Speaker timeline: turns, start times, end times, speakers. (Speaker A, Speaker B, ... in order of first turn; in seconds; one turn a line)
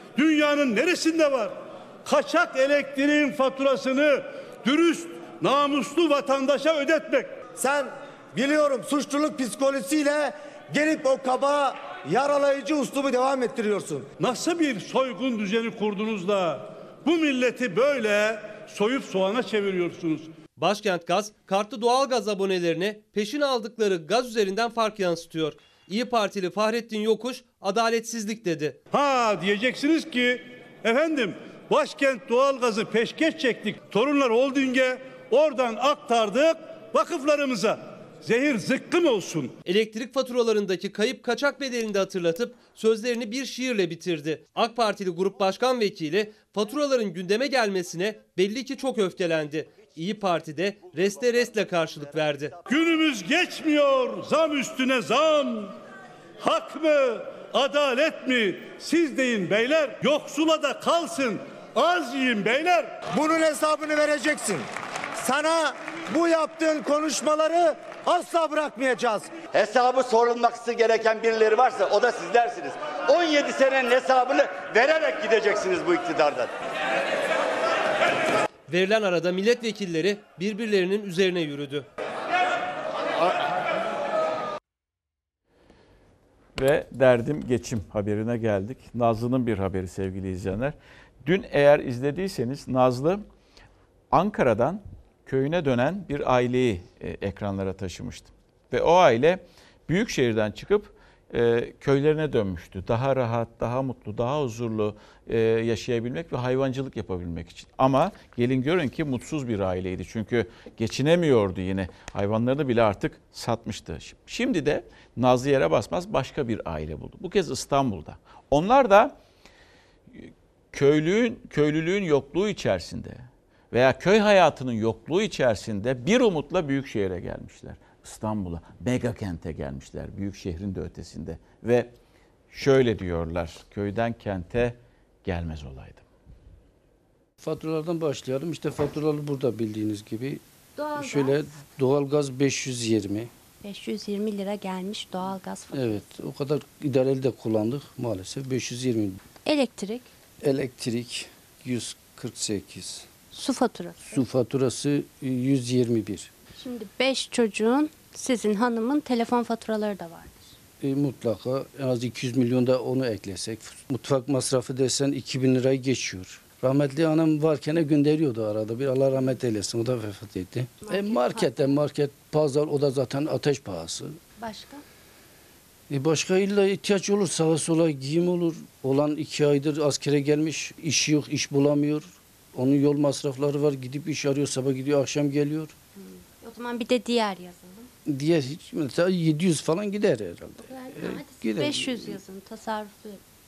Speaker A: 0.2-7.4
Speaker B: 7.6-14.1
Speaker A: 14.2-20.3
Speaker C: 20.6-28.8
Speaker A: 28.9-39.5
Speaker C: 39.6-52.5
Speaker A: 52.7-55.8
Speaker A: 56.4-62.9
Speaker B: 63.1-69.4
Speaker D: 69.5-76.5
Speaker C: 78.7-81.9
Speaker E: 86.6-93.2
Speaker E: 94.1-119.2
Speaker E: 120.1-131.9
Speaker E: 132.5-136.1
Speaker F: 137.4-140.4
Speaker G: 140.8-141.4
Speaker F: 140.9-143.3
Speaker G: 143.6-146.0
Speaker F: 145.7-149.2
Speaker G: 149.4-150.1
Speaker F: 150.4-153.1
Speaker G: 153.3-154.0
Speaker F: 154.1-156.3
Speaker G: 156.6-160.5
Speaker F: 160.8-174.2
Speaker G: 170.9-171.7
Speaker G: 174.4-174.8
Speaker F: 175.9-185.8
Speaker G: 186.0-187.9
Speaker F: 188.1-192.2
Speaker G: 190.7-193.2